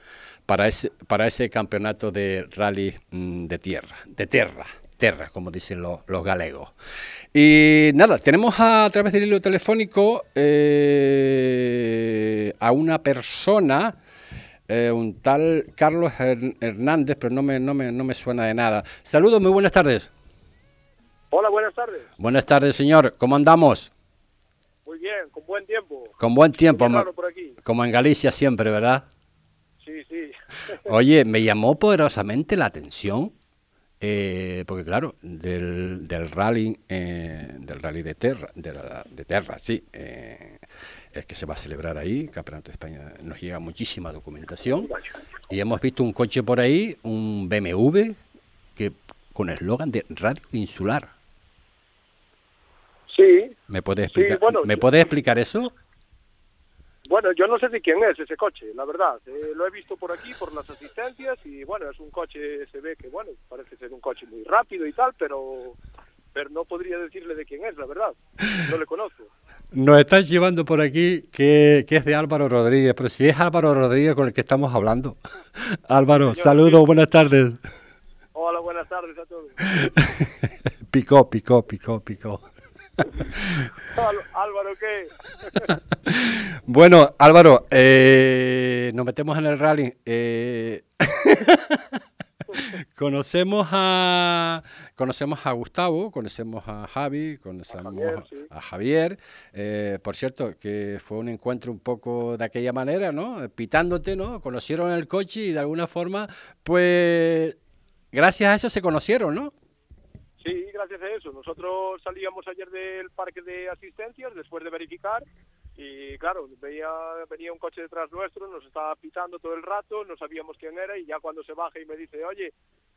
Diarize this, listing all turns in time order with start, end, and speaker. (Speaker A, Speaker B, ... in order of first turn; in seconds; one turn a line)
Speaker A: 0.5-6.7
Speaker A: 7.3-14.0
Speaker A: 14.7-20.1
Speaker B: 21.3-22.1
Speaker A: 22.2-23.9
Speaker B: 24.8-27.6
Speaker A: 26.2-27.1
Speaker A: 27.6-29.1
Speaker B: 29.8-30.3
Speaker A: 30.8-33.3
Speaker A: 34.0-44.9
Speaker B: 44.8-45.1
Speaker A: 45.5-48.2
Speaker A: 48.8-51.1
Speaker B: 53.1-53.5
Speaker A: 53.7-55.7
Speaker B: 54.1-54.9
Speaker B: 57.0-65.8
Speaker B: 66.3-69.3
Speaker A: 69.7-77.6
Speaker B: 76.1-76.9
Speaker B: 78.3-79.6
Speaker A: 79.8-82.4
Speaker A: 83.4-83.6
Speaker B: 83.9-85.7
Speaker A: 86.1-91.8
Speaker A: 92.5-107.6
Speaker B: 97.7-98.5
Speaker A: 108.1-109.5
Speaker B: 110.4-115.2
Speaker B: 115.8-122.5